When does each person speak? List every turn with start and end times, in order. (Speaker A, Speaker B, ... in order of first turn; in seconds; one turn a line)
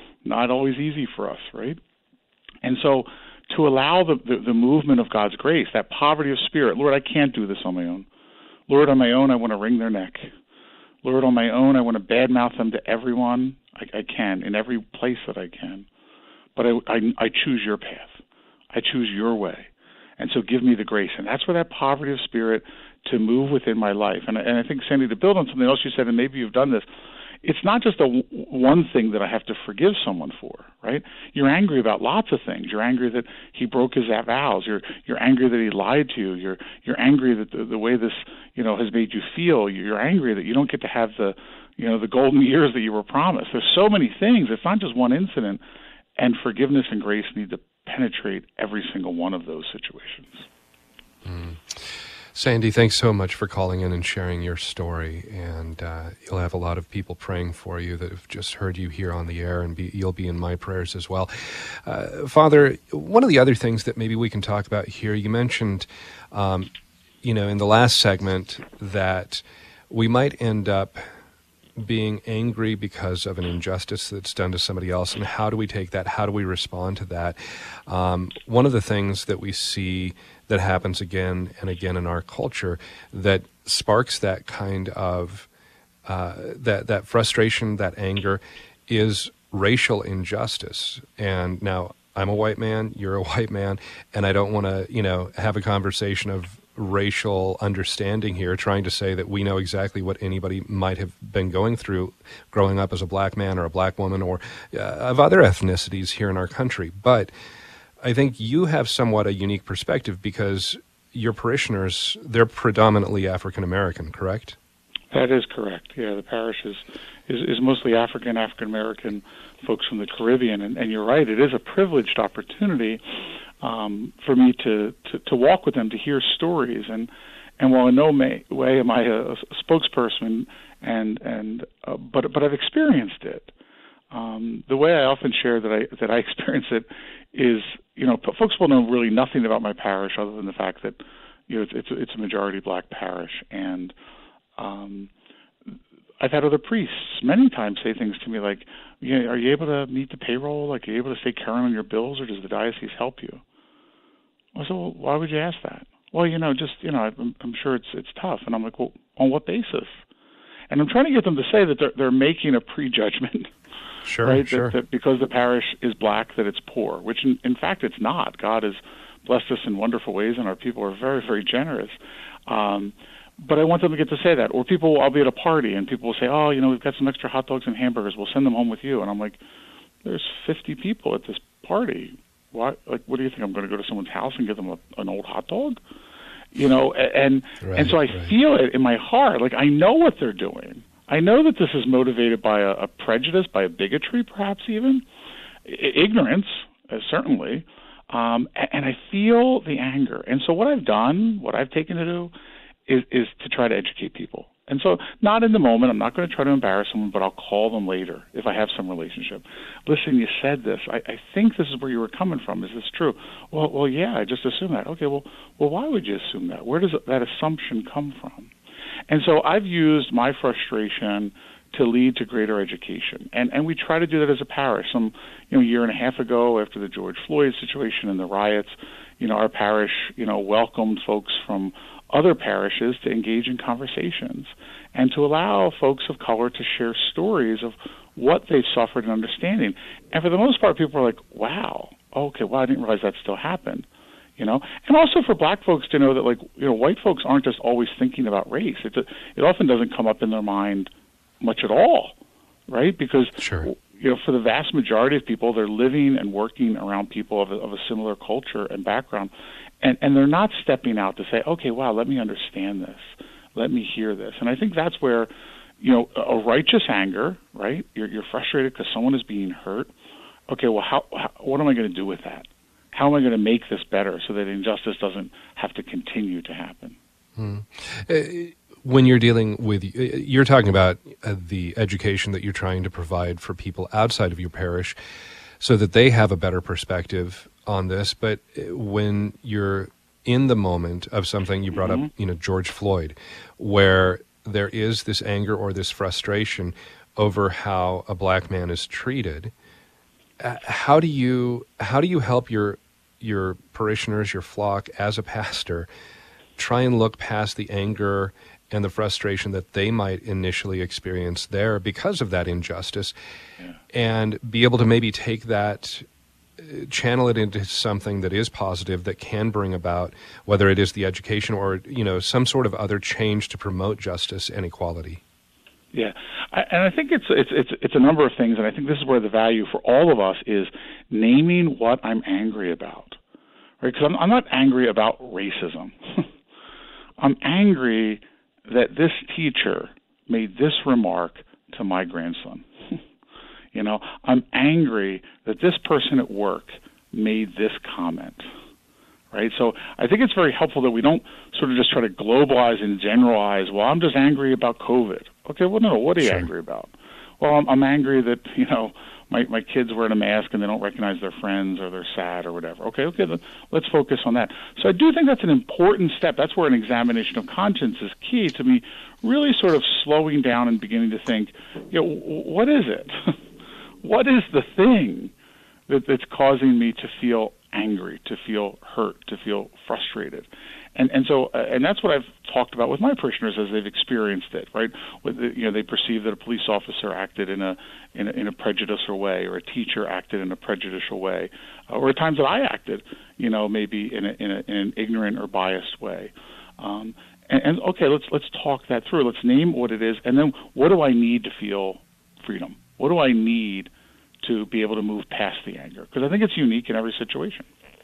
Speaker A: 0.2-1.8
Speaker A: 2.6-8.1
Speaker A: 8.7-10.3
Speaker A: 11.0-15.9
Speaker A: 16.6-18.2
Speaker A: 18.7-26.9
Speaker A: 27.4-45.6
Speaker A: 46.2-50.5
Speaker B: 51.2-66.7
Speaker B: 67.2-71.1
Speaker B: 71.8-85.5
Speaker B: 86.1-107.3
Speaker B: 108.0-114.6
Speaker A: 115.1-123.0
Speaker A: 123.6-133.5
Speaker A: 134.1-143.9
Speaker A: 144.6-145.1
Speaker A: 146.2-153.4
Speaker A: 154.6-160.0
Speaker A: 160.7-163.5
Speaker B: 164.1-164.8
Speaker A: 164.2-179.4
Speaker A: 180.0-185.8
Speaker A: 186.5-195.0
Speaker B: 187.6-188.3
Speaker A: 195.7-202.3
Speaker A: 202.9-218.5
Speaker A: 219.1-243.9
Speaker A: 244.4-252.2
Speaker A: 252.7-269.9
Speaker B: 253.4-253.7
Speaker A: 270.5-277.0
Speaker B: 277.4-285.0
Speaker B: 285.6-299.5
Speaker A: 291.8-292.1
Speaker B: 300.4-305.9
Speaker B: 306.6-313.1
Speaker B: 313.9-316.1
Speaker B: 316.6-325.2
Speaker A: 325.9-333.2
Speaker A: 333.8-336.3
Speaker A: 337.2-343.0
Speaker A: 343.7-348.4
Speaker A: 349.3-373.4
Speaker B: 356.2-356.5
Speaker A: 374.0-375.3
Speaker A: 375.9-403.9
Speaker A: 404.4-407.7